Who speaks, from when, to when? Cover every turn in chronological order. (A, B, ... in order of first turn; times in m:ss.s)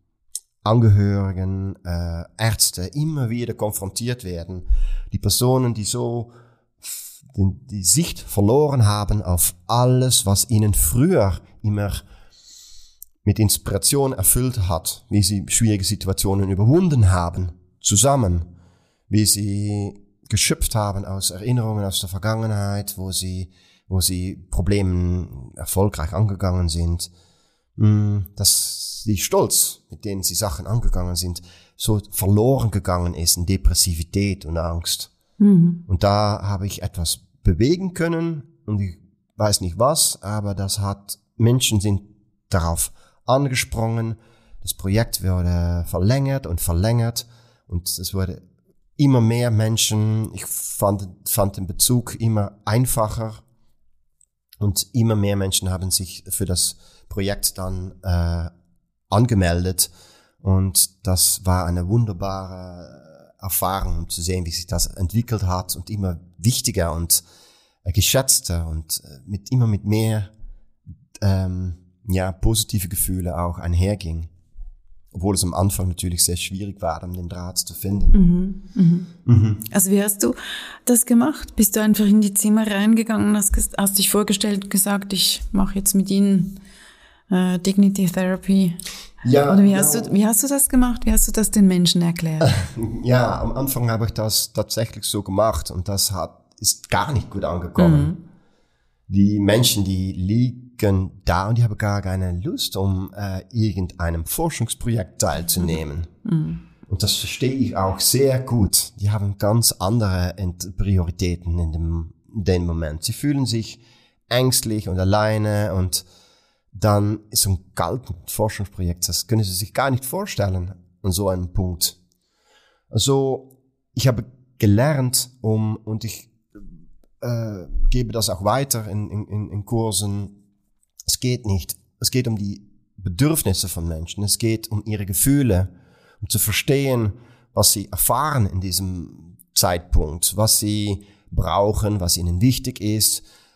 0:00.6-0:12.0 A
0:13.2-0:18.5 A
0:19.1-0:27.1 A
0:27.8-0:35.1 A
0:35.4-0:35.8 B
0:35.9-0:48.4 A
0:49.0-0:53.4 A
0:54.6-0:58.5 A
0:59.1-0:59.9 A
1:00.4-1:07.2 A
1:07.8-1:10.3 A
1:11.2-1:14.3 A
1:15.1-1:18.2 A
1:18.1-1:19.1 B
1:19.2-1:19.6 A
1:19.7-1:26.6 B
1:27.3-1:28.8 B
1:29.2-1:30.1 A
1:29.5-1:32.5 B
1:32.4-1:38.2 A
1:37.8-1:38.2 B
1:39.1-1:46.1 A
1:46.2-1:46.6 B
1:46.8-1:56.0 A
1:56.7-2:02.0 A
2:02.9-2:06.7 A
2:07.2-2:10.3 A
2:11.0-2:23.2 A